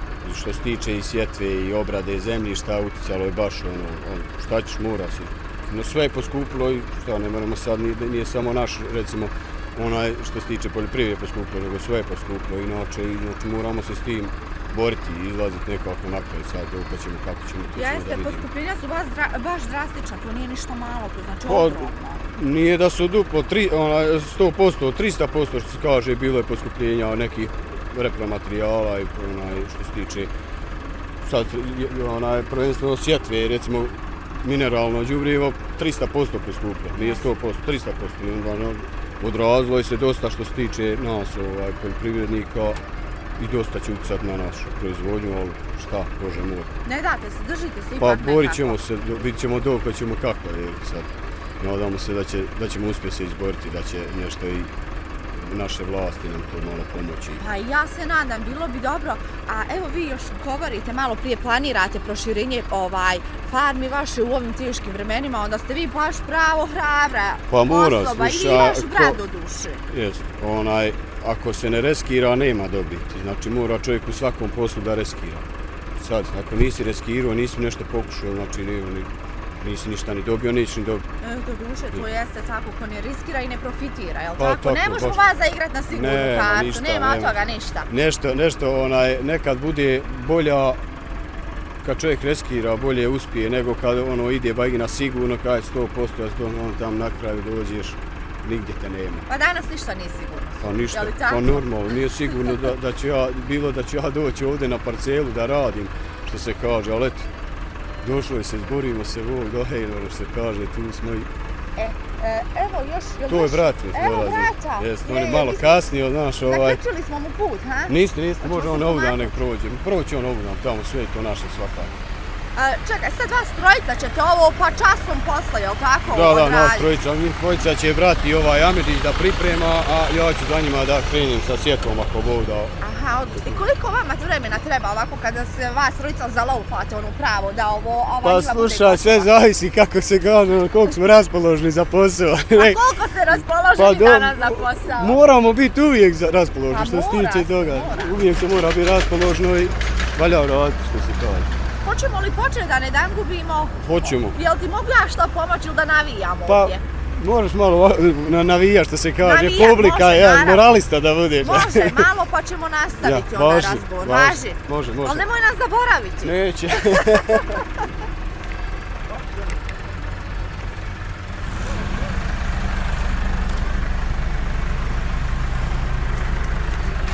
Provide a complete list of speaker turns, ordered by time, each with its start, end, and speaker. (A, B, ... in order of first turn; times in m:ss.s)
0:00.2-0:18.5 A
0:17.7-0:22.2 B
0:21.4-0:30.3 A
0:31.2-0:42.8 A
0:37.0-0:37.3 B
0:43.4-0:46.7 A
0:46.8-0:48.8 B
0:48.0-0:51.1 A
0:51.6-0:54.7 A
0:55.4-0:57.4 A
0:57.4-1:09.8 B
1:07.5-1:09.2 A
1:09.9-1:15.4 A
1:16.0-1:19.1 A
1:19.6-1:21.0 A
1:21.2-1:27.9 B
1:24.4-1:25.2 A
1:25.9-1:30.8 A
1:31.8-1:39.2 A
1:39.3-1:41.6 B
1:40.6-1:47.3 A
1:42.3-1:42.6 B
1:48.0-1:51.3 A
1:51.8-1:55.8 B
1:53.3-1:56.8 A
1:56.5-1:59.3 B
1:57.9-2:01.9 A
2:02.5-2:06.9 B
2:06.1-2:12.8 A
2:12.8-2:19.3 B
2:18.2-2:22.8 A
2:22.5-2:25.2 B
2:23.8-2:31.5 A
2:26.7-2:28.2 B
2:31.8-2:36.8 B
2:33.8-2:34.4 A
2:36.5-2:42.0 A
2:39.2-2:40.6 B
2:41.4-2:47.5 B
2:43.0-2:45.2 A
2:46.2-2:47.6 A